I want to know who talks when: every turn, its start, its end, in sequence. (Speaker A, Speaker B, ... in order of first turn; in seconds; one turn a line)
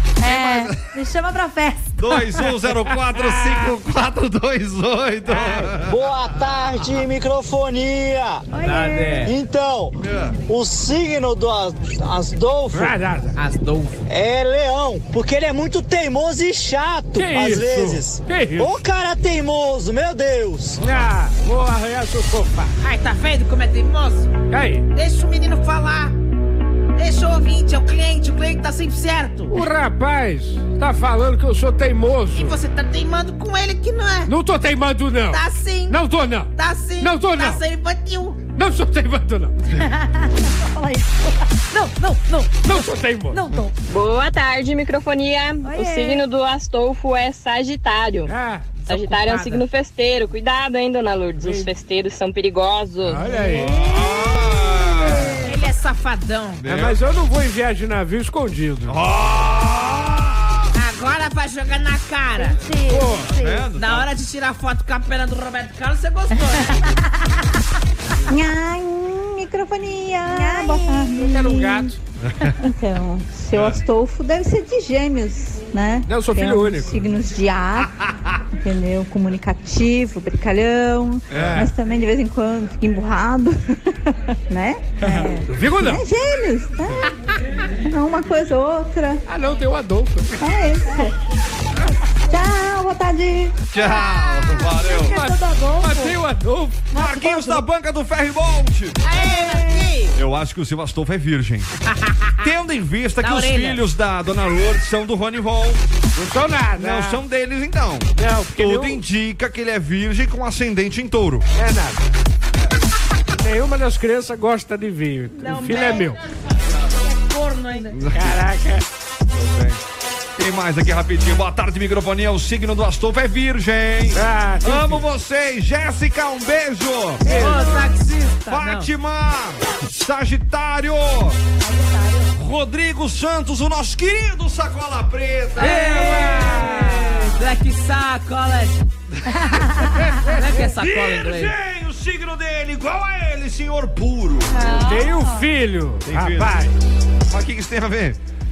Speaker A: 0.2-2.5
Speaker B: 0.2-0.8
Speaker B: 2.0-6.0
Speaker C: 3.1-3.7
Speaker C: 5.3-5.7
Speaker D: 5.8-8.5
Speaker A: 8.5-9.3
Speaker E: 8.6-9.3
Speaker D: 9.2-9.9
Speaker B: 10.0-10.3
Speaker D: 10.5-12.9
Speaker C: 12.7-13.3
Speaker E: 13.3-14.0
Speaker D: 14.1-20.8
Speaker C: 17.1-18.8
Speaker C: 20.8-22.8
Speaker E: 22.8-24.3
Speaker C: 24.5-24.9
Speaker E: 24.9-26.1
Speaker E: 26.9-29.5
Speaker C: 29.5-32.6
Speaker E: 32.3-34.3
Speaker C: 34.2-37.6
Speaker E: 35.3-36.0
Speaker E: 36.5-38.4
Speaker C: 38.5-39.6
Speaker A: 39.8-43.7
Speaker C: 42.6-43.5
Speaker F: 43.9-48.3
Speaker A: 45.6-46.2
Speaker C: 48.3-48.8
Speaker E: 48.8-49.6
Speaker F: 48.9-53.2
Speaker C: 51.4-51.7
Speaker C: 53.0-53.9
Speaker A: 53.3-54.1
Speaker B: 53.6-55.4
Speaker A: 55.0-55.6
Speaker C: 55.1-55.4
Speaker E: 55.4-56.6
Speaker B: 56.6-57.0
Speaker C: 56.6-59.0
Speaker B: 58.9-60.7
Speaker E: 60.7-62.6
Speaker A: 62.4-63.7
Speaker C: 62.9-63.4
Speaker B: 63.2-64.1
Speaker E: 63.7-66.9
Speaker G: 68.3-71.9
Speaker A: 70.3-71.3
Speaker C: 71.2-72.0
Speaker B: 72.2-72.5
Speaker G: 72.6-78.0
Speaker B: 73.5-73.8
Speaker C: 76.1-77.0
Speaker G: 78.6-83.8
Speaker B: 81.3-81.7
Speaker C: 81.3-81.7
Speaker G: 84.5-84.9
Speaker C: 85.0-86.0
Speaker A: 85.0-85.5
Speaker G: 85.6-87.1
Speaker G: 87.9-89.2
Speaker C: 89.3-90.4
Speaker G: 90.4-91.1
Speaker G: 92.3-93.6
Speaker B: 93.7-95.2
Speaker A: 93.7-96.2
Speaker C: 95.0-96.9
Speaker A: 96.9-97.6
Speaker B: 96.9-99.0
Speaker E: 99.0-100.1
Speaker A: 99.4-99.8
Speaker B: 100.1-101.7
Speaker B: 102.4-105.8
Speaker E: 103.2-103.8
Speaker C: 106.1-107.2
Speaker B: 106.8-111.5
Speaker C: 108.2-109.0
Speaker C: 111.5-112.0
Speaker C: 113.3-116.2
Speaker E: 115.3-116.2
Speaker E: 116.8-118.0
Speaker B: 117.9-118.4
Speaker C: 118.1-118.8
Speaker B: 119.3-119.8
Speaker B: 120.4-127.6
Speaker C: 124.1-125.0
Speaker C: 127.2-127.7
Speaker A: 127.3-127.7
Speaker E: 127.3-128.9
Speaker B: 128.5-131.4
Speaker A: 131.6-132.3
Speaker B: 132.3-136.9
Speaker E: 135.6-138.9
Speaker C: 135.8-137.2
Speaker A: 139.3-140.0
Speaker B: 139.4-139.9
Speaker C: 140.1-140.5
Speaker E: 140.3-141.5
Speaker B: 140.8-144.7
Speaker A: 144.5-145.4
Speaker C: 144.8-146.8
Speaker B: 146.0-146.6
Speaker B: 147.3-148.2